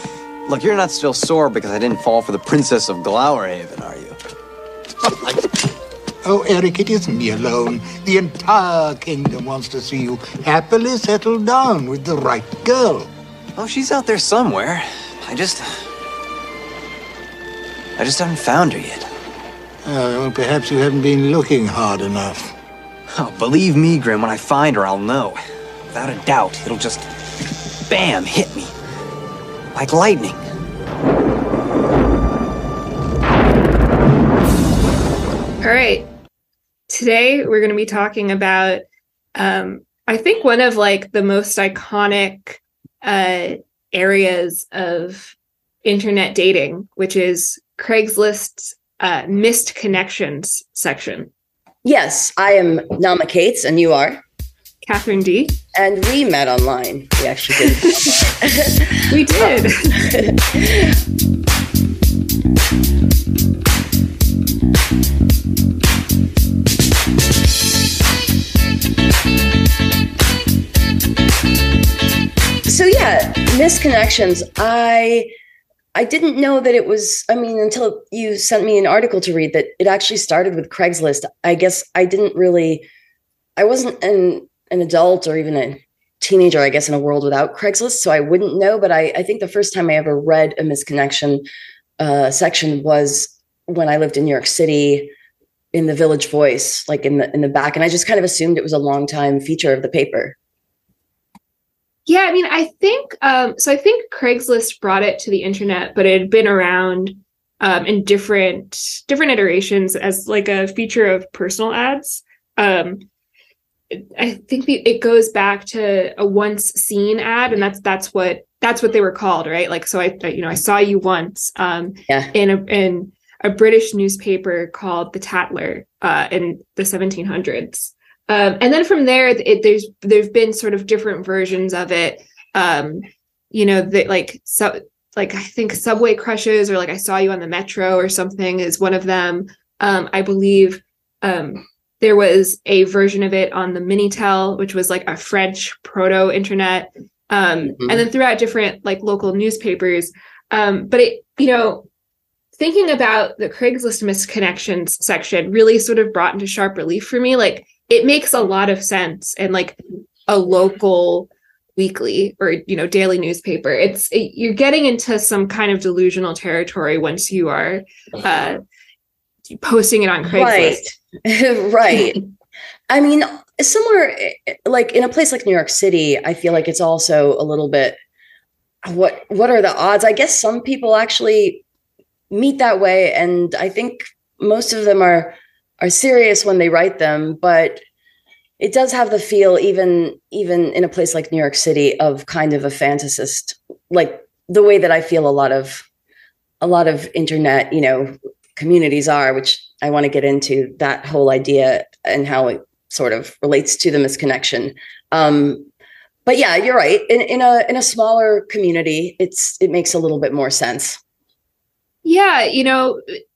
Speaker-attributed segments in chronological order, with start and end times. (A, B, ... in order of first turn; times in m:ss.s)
0:00.5-0:04.2 A
0:05.1-0:05.4 B
0:06.2-0:13.1 B
0:13.6-0:15.7 A
0:18.0-0:19.1 A
0:19.8-0:22.5 B
0:23.2-0:25.4 A
0:25.9-0:27.1 A
0:27.9-0:28.7 A
0:29.7-0:30.4 A
0:35.6-0:36.1 C
0:36.9-0:38.8 C
0:39.4-0:51.3 C
0:51.8-0:54.2 D
0:54.9-0:55.6 C
0:55.7-1:01.0 D
0:57.6-0:58.2 C
0:59.1-1:00.1 C
1:12.7-1:15.3 D
1:16.0-1:22.9 D
1:23.6-1:31.4 D
1:32.0-1:35.1 D
1:35.7-1:40.4 D
1:42.1-1:53.0 C
1:53.9-2:31.9 C
2:32.6-2:48.6 C
2:49.6-2:50.8 C
2:50.3-2:52.2 D
2:51.9-2:52.2 C
2:52.9-2:58.0 D
2:58.8-3:01.6 D
3:02.3-3:07.8 D
3:08.6-3:15.8 D
3:16.6-3:25.7 D
3:26.3-3:31.0 D
3:32.0-3:33.2 C